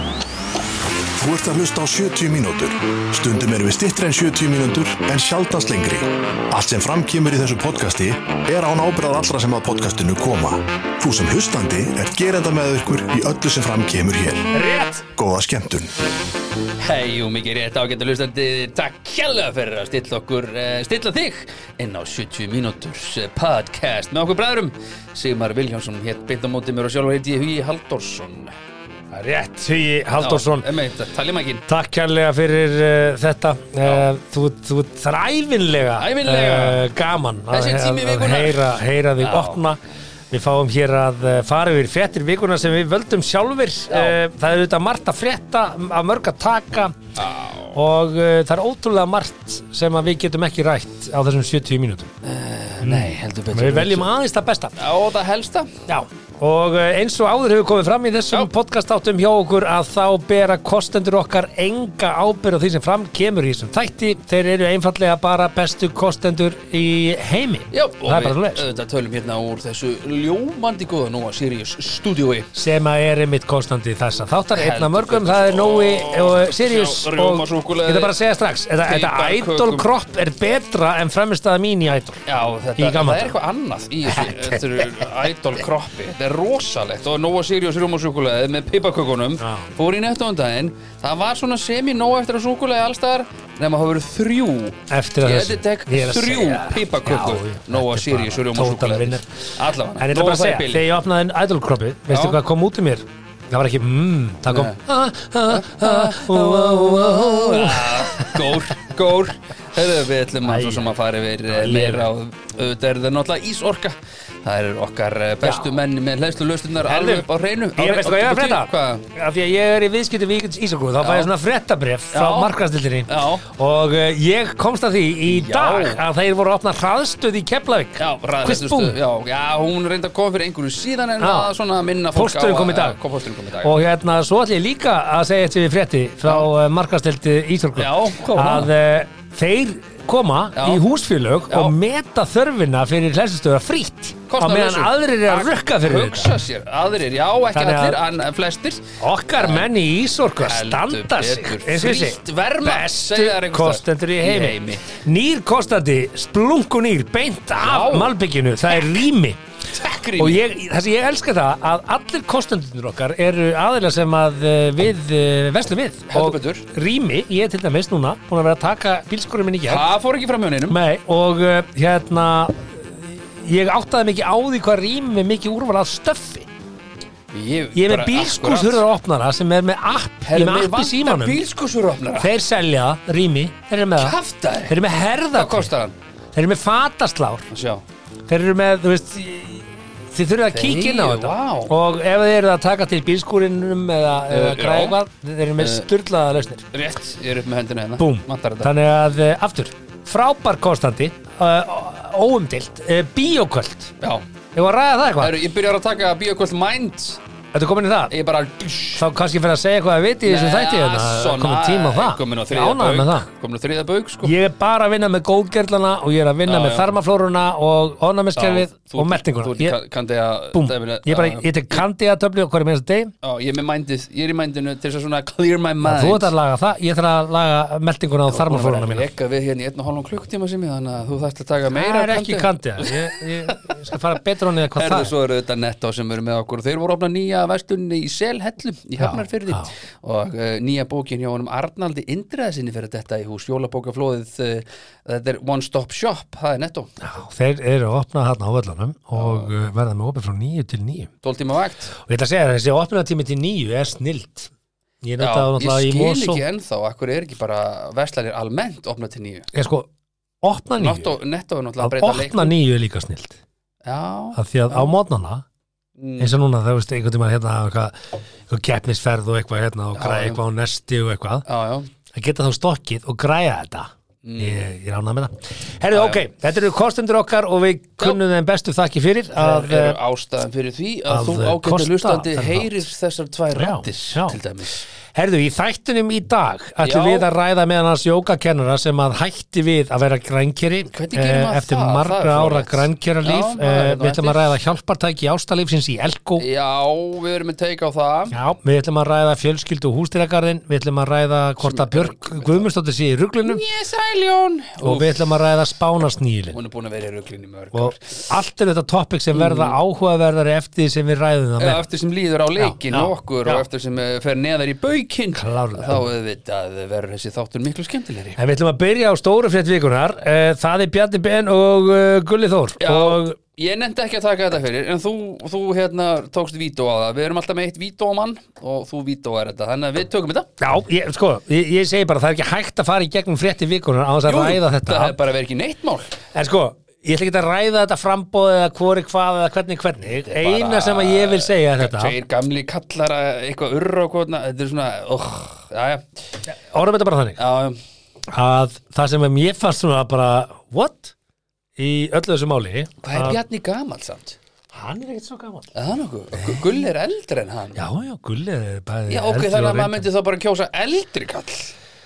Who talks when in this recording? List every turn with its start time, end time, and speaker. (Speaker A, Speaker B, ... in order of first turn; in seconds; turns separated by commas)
Speaker A: 1.1-14.5, Speaker B: 14.5-15.0, Speaker A: 15.2-15.9, Speaker C: 16.8-28.5, Speaker B: 29.1-30.7, Speaker C: 30.2-31.6, Speaker B: 31.7-46.9, Speaker C: 33.8-34.1, Speaker C: 36.0-36.9, Speaker C: 37.5-38.6, Speaker C: 39.2-39.6, Speaker C: 43.9-44.2, Speaker C: 47.2-47.8, Speaker B: 47.7-52.1, Speaker C: 52.2-54.1, Speaker B: 52.8-54.8, Speaker C: 54.8-55.8, Speaker B: 55.9-68.6, Speaker C: 67.7-72.5, Speaker B: 72.5-82.2, Speaker C: 74.5-78.1, Speaker C: 78.8-79.9, Speaker C: 82.2-100.8, Speaker B: 82.8-83.4, Speaker B: 84.1-85.3, Speaker B: 89.4-89.7, Speaker B: 94.9-99.2, Speaker B: 100.0-108.7, Speaker C: 102.1-102.4, Speaker C: 104.5-104.8, Speaker C: 105.5-119.0, Speaker B: 110.4-110.9, Speaker B: 111.5-112.1, Speaker B: 115.4-115.7, Speaker B: 116.8-128.9, Speaker C: 121.0-121.3, Speaker C: 122.1-122.5, Speaker C: 123.1-123.4, Speaker C: 125.3-126.0, Speaker C: 128.0-133.7, Speaker B: 131.2-131.5, Speaker B: 132.1-133.0, Speaker B: 133.6-146.3, Speaker C: 137.8-138.7, Speaker C: 140.5-140.8, Speaker C: 141.5-141.8, Speaker C: 144.3-149.7, Speaker B: 147.5-148.0, Speaker B: 149.0-159.4, Speaker C: 150.4-154.9, Speaker C: 157.6-158.2, Speaker C: 159.7-160.4, Speaker B: 160.2-169.8, Speaker C: 166.1-166.7, Speaker C: 169.7-170.8, Speaker B: 170.7-176.5, Speaker C: 177.3-178.8, Speaker B: 177.7-181.4, Speaker C: 180.2-182.3, Speaker B: 182.1-184.2, Speaker C: 184.0-184.8, Speaker B: 184.7-185.7, Speaker C: 185.3-185.9, Speaker B: 186.3-187.5, Speaker C: 187.5-187.8, Speaker B: 188.3-196.7, Speaker C: 190.5-191.7, Speaker C: 194.3-195.0, Speaker C: 195.6-195.9, Speaker C: 196.7-198.7, Speaker B: 198.0-203.9, Speaker B: 204.5-205.4, Speaker C: 205.2-207.2, Speaker B: 207.5-208.1, Speaker C: 208.1-209.1, Speaker B: 209.0-213.3, Speaker C: 210.2-214.3, Speaker B: 214.2-219.8, Speaker C: 216.4-216.9, Speaker C: 218.3-221.8, Speaker B: 220.5-223.1, Speaker C: 223.2-226.3, Speaker B: 225.8-229.1, Speaker C: 228.3-234.0, Speaker B: 231.7-235.1, Speaker C: 234.7-246.9, Speaker B: 239.0-239.7, Speaker B: 247.0-251.1, Speaker C: 249.1-249.5, Speaker C: 251.2-251.9, Speaker B: 251.9-254.5, Speaker B: 255.0-256.4, Speaker C: 255.2-259.5, Speaker B: 259.5-259.9, Speaker B: 260.4-261.1, Speaker C: 260.8-262.5, Speaker B: 261.8-263.4, Speaker C: 263.8-264.9, Speaker B: 264.3-265.4, Speaker C: 266.0-266.3, Speaker B: 266.2-271.4, Speaker C: 269.9-270.4, Speaker C: 271.4-271.9, Speaker B: 272.1-280.0, Speaker C: 274.2-274.7, Speaker C: 275.9-276.2, Speaker C: 279.3-284.8, Speaker B: 281.1-282.8, Speaker B: 283.5-284.4, Speaker B: 285.1-296.4, Speaker C: 286.8-287.3, Speaker C: 290.9-294.5, Speaker C: 296.4-298.4, Speaker B: 298.3-303.6, Speaker C: 301.6-302.7, Speaker C: 303.4-305.2, Speaker B: 304.8-306.6, Speaker C: 306.5-308.3, Speaker B: 307.7-311.9, Speaker C: 309.3-309.8, Speaker C: 311.6-318.4, Speaker B: 312.6-313.6, Speaker B: 315.3-316.1, Speaker B: 318.4-323.4, Speaker C: 322.8-330.5, Speaker B: 330.6-335.2, Speaker C: 334.2-336.2, Speaker B: 336.3-342.1, Speaker C: 340.0-346.1, Speaker B: 346.5-347.4, Speaker C: 347.4-347.8, Speaker B: 348.3-351.1, Speaker B: 351.8-353.4, Speaker C: 353.0-354.4, Speaker B: 354.7-355.7, Speaker C: 355.7-357.8, Speaker B: 356.3-356.9, Speaker B: 357.7-360.1, Speaker C: 359.1-361.7